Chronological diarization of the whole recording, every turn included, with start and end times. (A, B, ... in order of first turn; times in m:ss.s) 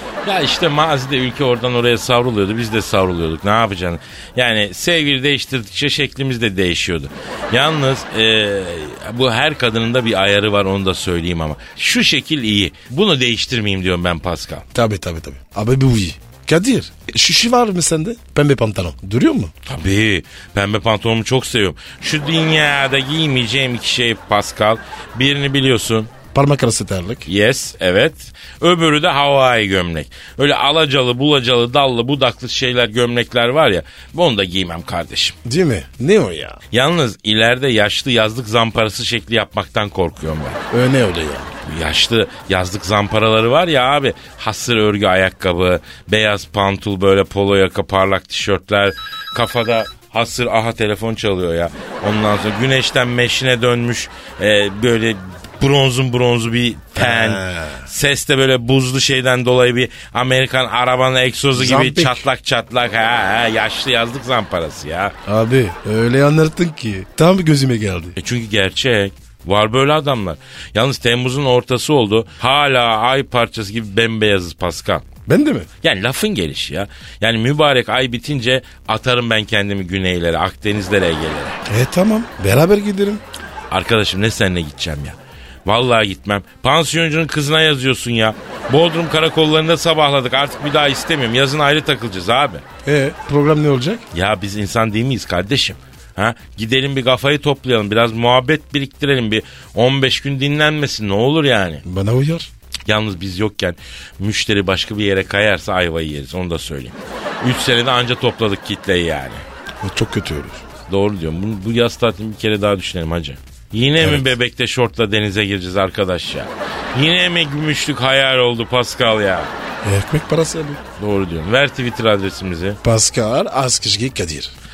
0:00.2-0:14.6 A
0:14.7-0:19.5 B
0:19.6-0:26.1 A
0:26.3-0:27.3 B
0:27.3-0:35.4 A
0:35.4-0:36.6 B
0:36.7-0:40.6 A
0:40.7-0:41.5 B
0:41.6-1:05.2 A
0:57.0-0:57.8 B
1:01.5-1:02.3 B
1:05.2-1:08.1 B
1:08.2-1:15.0 A
1:15.3-1:15.7 B
1:15.8-1:21.6 A
1:21.6-1:23.2 B
1:23.7-1:32.6 A
1:32.8-1:34.0 B
1:34.1-1:41.8 A
1:41.8-1:42.5 B
1:42.8-1:49.4 A
1:49.8-1:50.6 B
1:50.9-1:59.5 A
1:54.0-1:54.3 B
1:59.8-2:00.8 B
2:01.0-2:02.8 A
2:02.8-2:04.5 B